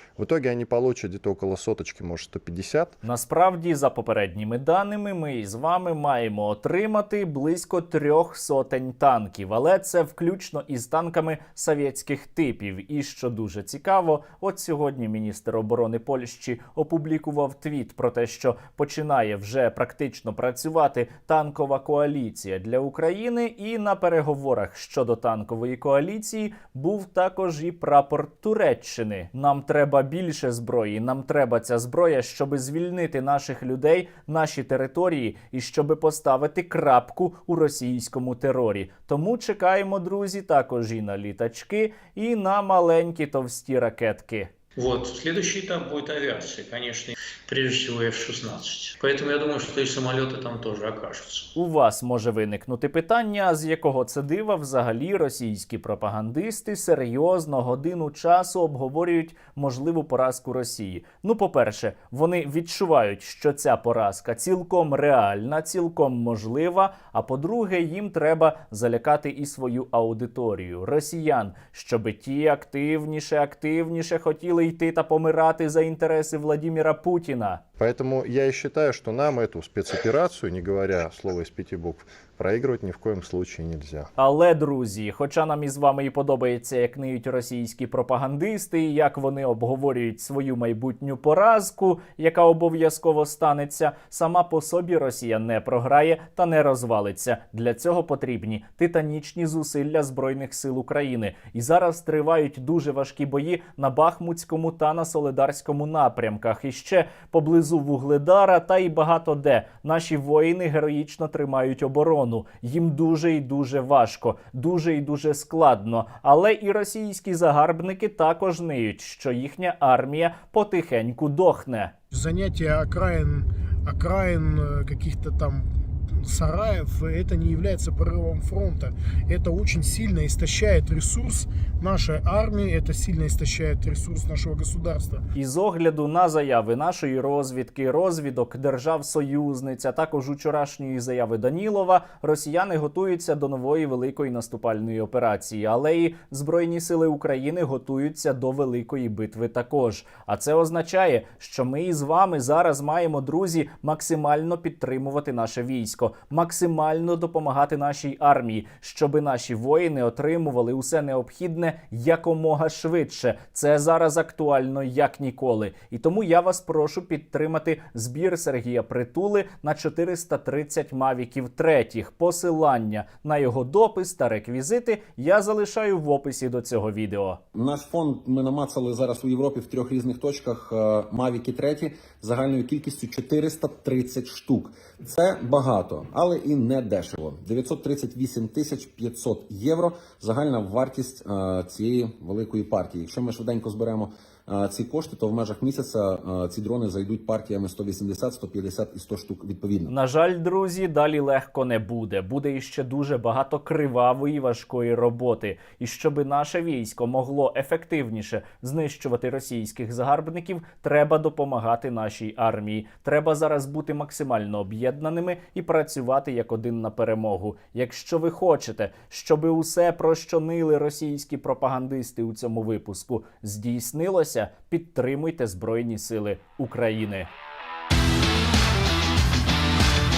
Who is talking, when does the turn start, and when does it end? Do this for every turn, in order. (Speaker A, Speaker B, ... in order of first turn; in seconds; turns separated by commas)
Speaker A: 0.2-3.0, Speaker B: 3.0-44.5, Speaker C: 44.8-51.5, Speaker B: 51.5-77.6, Speaker A: 77.8-84.1, Speaker B: 84.2-121.9, Speaker D: 122.1-125.7, Speaker D: 126.2-135.2, Speaker B: 135.3-177.4, Speaker E: 177.6-199.9, Speaker B: 199.9-227.3